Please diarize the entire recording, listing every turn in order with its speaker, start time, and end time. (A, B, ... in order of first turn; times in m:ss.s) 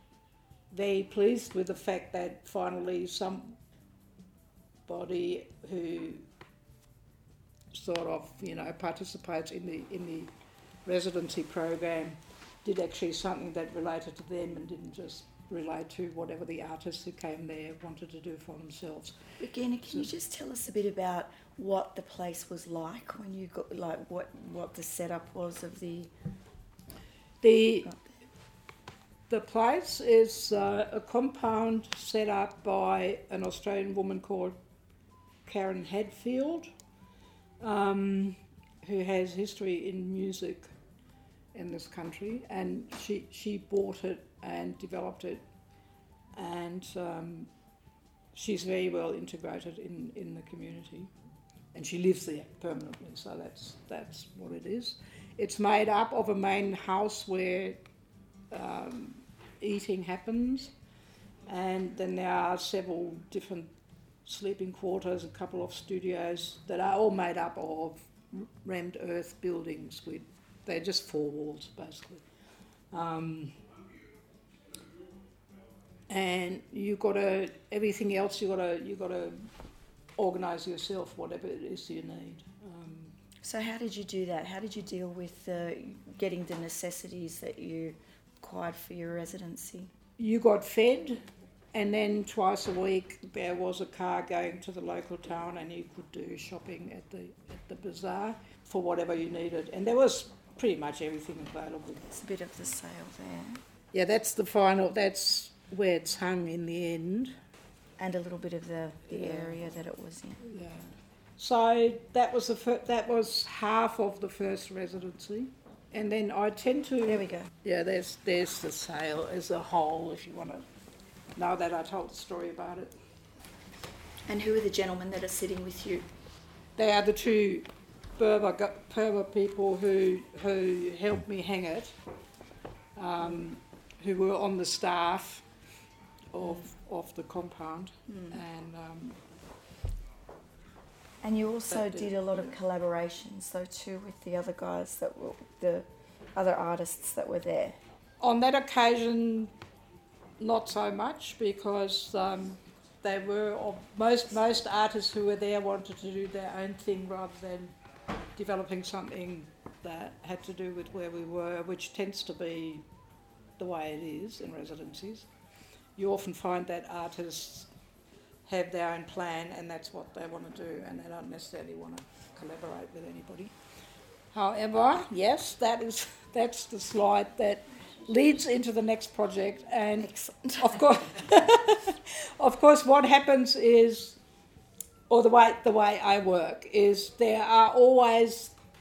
0:00.7-0:03.6 A
0:04.9-0:06.2 A
0:07.7-0:10.3 A
0:10.8-0:19.2 A
0:19.4-0:26.1 B
0:27.4-0:27.9 A
0:29.3-0:34.6 A
0:35.4-0:36.7 A
0:37.6-0:40.7 A
0:41.5-0:45.4 A
0:46.3-0:47.5 A
0:48.3-0:51.1 A
0:51.7-0:57.8 A
0:58.5-1:00.7 A
1:01.5-1:03.7 A
1:04.2-1:12.2 A
1:12.9-1:13.6 A
1:16.1-1:19.5 A
1:20.2-1:23.1 A
1:23.4-1:29.9 B
1:30.2-1:42.0 A
1:42.0-1:43.6 B
1:43.9-1:47.3 A
1:48.0-1:50.5 B
1:49.1-1:49.6 A
1:50.4-2:00.6 A
1:57.0-1:57.5 B
2:01.4-2:02.9 A
2:04.2-2:06.1 B
2:06.8-2:12.0 A
2:13.0-2:15.5 A
2:16.3-2:19.2 A
2:18.1-2:18.4 B
2:21.2-2:27.8 B
2:28.2-2:29.5 A
2:30.4-2:37.7 A
2:38.4-2:42.8 A
2:43.6-2:45.3 A
2:46.0-2:47.7 A
2:48.4-2:53.5 A
2:54.3-3:04.2 A
3:00.0-3:00.9 B
3:05.1-3:08.5 A